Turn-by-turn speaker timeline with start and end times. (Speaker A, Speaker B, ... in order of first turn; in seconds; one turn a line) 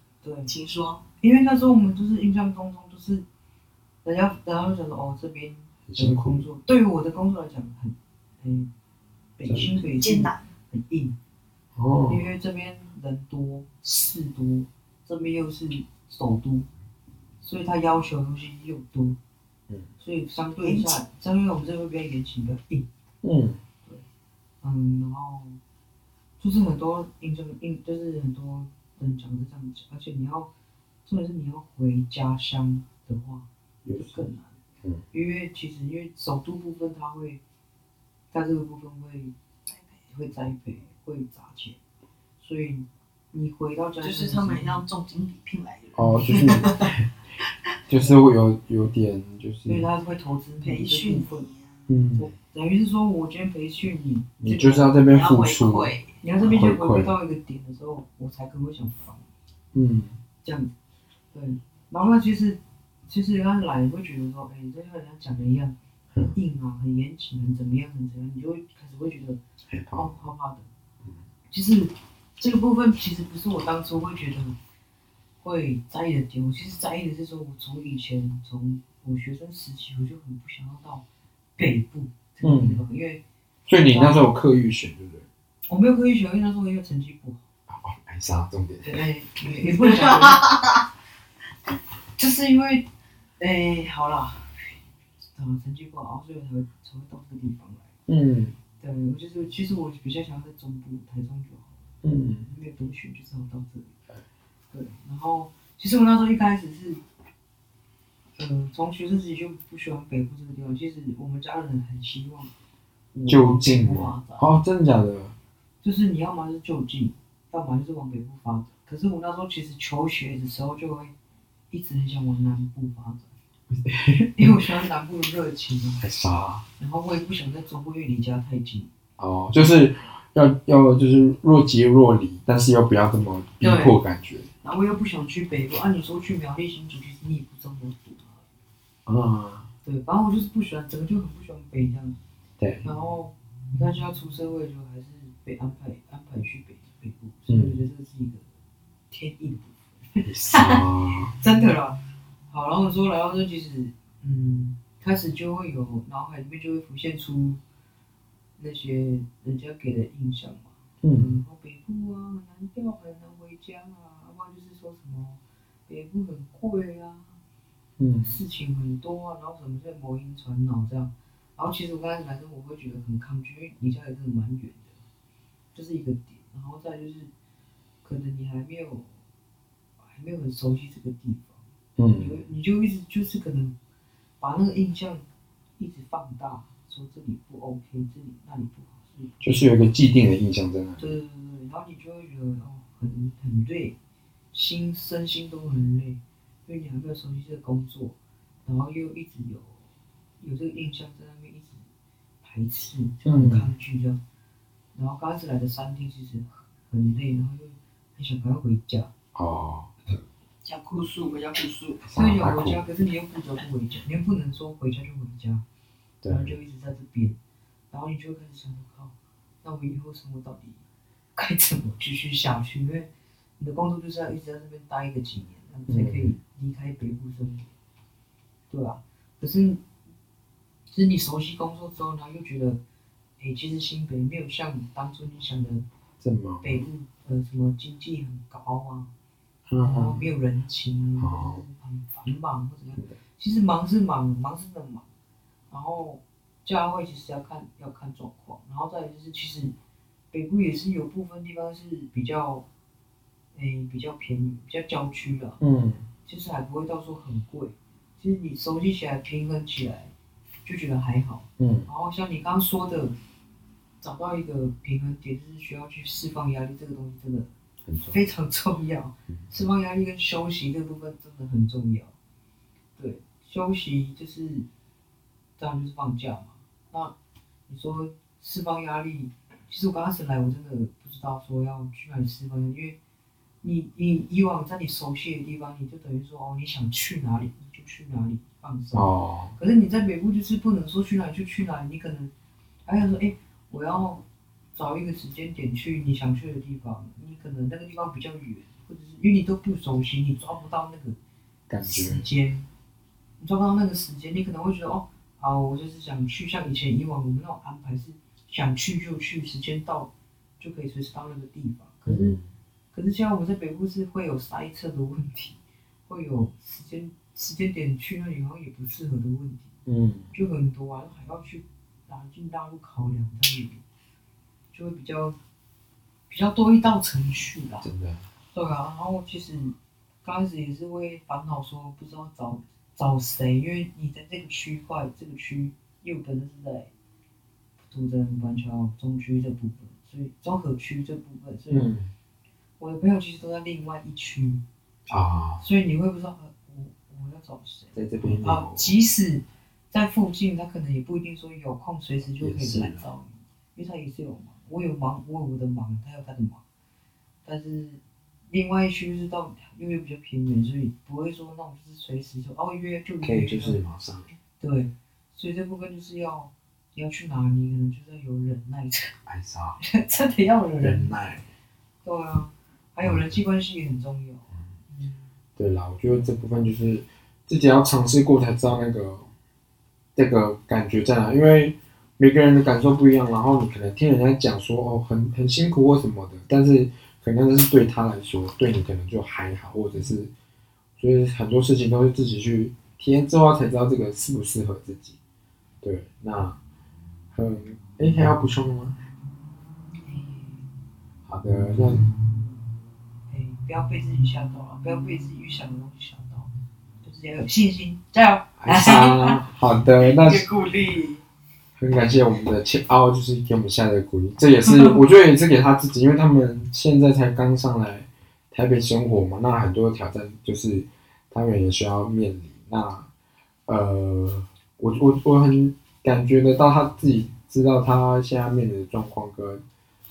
Speaker A: 0.2-0.5
Speaker B: 0.5-1.0
Speaker A: 1.2-3.2
Speaker A: 4.0-8.7
Speaker C: 5.9-6.5
Speaker A: 9.4-11.1
Speaker C: 9.4-9.7
Speaker B: 9.8-10.4
Speaker C: 11.8-12.3
Speaker A: 12.1-16.7
Speaker A: 17.4-19.2
Speaker A: 20.0-22.9
Speaker B: 20.6-21.0
Speaker C: 23.2-23.6
Speaker A: 24.6-25.6
Speaker A: 26.4-30.5
Speaker A: 31.0-34.5
Speaker C: 33.8-34.2
Speaker A: 35.1-37.4
Speaker A: 38.3-39.3
Speaker A: 40.1-41.8
Speaker A: 42.4-44.8
Speaker B: 44.0-46.9
Speaker C: 46.0-47.1
Speaker C: 47.9-49.9
Speaker A: 49.6-51.5
Speaker B: 50.6-51.9
Speaker C: 51.9-52.3
Speaker A: 52.2-55.0
Speaker C: 54.4-57.2
Speaker B: 55.1-56.2
Speaker A: 56.2-59.2
Speaker C: 59.7-60.2
Speaker A: 60.4-60.7
Speaker A: 61.3-65.7
Speaker A: 66.3-69.4
Speaker C: 69.7-70.1
Speaker A: 69.9-70.7
Speaker A: 71.5-74.5
Speaker A: 75.4-81.0
Speaker A: 81.6-83.2
Speaker C: 82.4-82.8
Speaker C: 83.7-85.2
Speaker A: 83.8-84.2
Speaker A: 85.7-87.4
Speaker C: 87.7-89.0
Speaker A: 88.8-90.5
Speaker B: 89.6-90.8
Speaker A: 92.2-92.8
Speaker A: 93.4-94.8
Speaker A: 95.3-97.9
Speaker C: 98.1-98.5
Speaker A: 98.8-101.7
Speaker C: 102.0-102.5
Speaker A: 102.5-103.9
Speaker A: 104.7-107.0
Speaker A: 108.4-112.5
Speaker A: 113.1-114.5
Speaker C: 113.3-115.3
Speaker A: 115.8-121.1
Speaker A: 121.7-123.3
Speaker C: 123.7-124.6
Speaker A: 124.3-126.0
Speaker C: 126.0-126.6
Speaker A: 126.8-128.9
Speaker C: 129.2-134.5
Speaker A: 133.6-134.0
Speaker A: 134.6-138.4
Speaker C: 139.1-139.7
Speaker A: 139.8-142.2
Speaker C: 142.6-142.8
Speaker A: 142.8-148.4
Speaker C: 147.5-147.8
Speaker A: 149.1-157.6
Speaker C: 150.2-151.3
Speaker A: 158.6-167.4
Speaker C: 161.0-161.4
Speaker C: 168.0-168.3
Speaker A: 168.2-174.9
Speaker A: 175.7-177.3
Speaker A: 178.0-179.1
Speaker A: 180.0-181.6
Speaker C: 182.0-182.4
Speaker A: 182.1-183.8
Speaker A: 184.4-185.2
Speaker A: 185.8-189.6
Speaker C: 189.4-191.1
Speaker A: 191.0-193.9
Speaker A: 194.5-199.8
Speaker A: 200.4-201.8
Speaker A: 202.4-204.2
Speaker C: 203.2-203.7
Speaker A: 204.9-209.1
Speaker C: 209.3-209.9
Speaker B: 210.6-212.1
Speaker C: 212.1-212.8
Speaker A: 212.1-215.6
Speaker C: 216.2-216.6
Speaker A: 216.3-217.3
Speaker A: 217.9-220.8
Speaker A: 221.3-227.7
Speaker C: 225.9-226.4
Speaker A: 228.7-229.8
Speaker A: 230.9-232.8
Speaker A: 233.4-235.8
Speaker C: 236.2-236.8
Speaker A: 236.6-239.1
Speaker C: 239.7-240.3
Speaker A: 239.8-245.0
Speaker C: 241.2-241.6
Speaker A: 245.7-249.7
Speaker A: 250.3-252.6
Speaker A: 253.5-255.6
Speaker C: 255.6-256.1
Speaker A: 256.2-260.1
Speaker A: 260.6-263.1
Speaker C: 261.6-261.9
Speaker A: 264.0-267.5
Speaker C: 267.9-268.2
Speaker A: 268.1-272.1
Speaker A: 273.0-274.7
Speaker A: 275.6-277.1
Speaker A: 277.7-283.0
Speaker A: 283.6-292.3
Speaker C: 288.9-289.6
Speaker A: 292.9-294.2
Speaker A: 294.7-301.2
Speaker C: 301.7-302.3
Speaker A: 301.8-302.7
Speaker A: 303.4-312.4
Speaker C: 312.1-312.5
Speaker A: 312.9-319.7
Speaker C: 319.9-320.3
Speaker A: 320.3-323.8
Speaker A: 324.7-325.4
Speaker A: 326.3-327.9
Speaker C: 327.8-328.2
Speaker A: 328.5-336.9
Speaker A: 337.8-341.9
Speaker C: 341.7-342.1
Speaker A: 342.8-344.6
Speaker C: 345.1-345.6
Speaker A: 345.6-356.6
Speaker C: 347.9-348.9
Speaker C: 352.4-353.0
Speaker A: 357.4-363.8
Speaker C: 363.2-364.3
Speaker A: 364.6-369.1
Speaker C: 369.3-369.8
Speaker A: 369.8-371.1
Speaker C: 370.8-371.4
Speaker A: 372.0-375.3
Speaker C: 373.0-373.4
Speaker C: 375.6-379.3
Speaker C: 380.1-390.3
Speaker C: 391.0-395.1
Speaker C: 395.8-396.6
Speaker C: 397.3-399.0
Speaker A: 400.0-400.7
Speaker C: 401.3-402.1
Speaker A: 402.0-402.6
Speaker A: 403.3-406.5
Speaker A: 407.0-409.4
Speaker C: 408.6-410.5
Speaker B: 410.0-411.2
Speaker C: 411.8-423.1
Speaker C: 423.7-429.6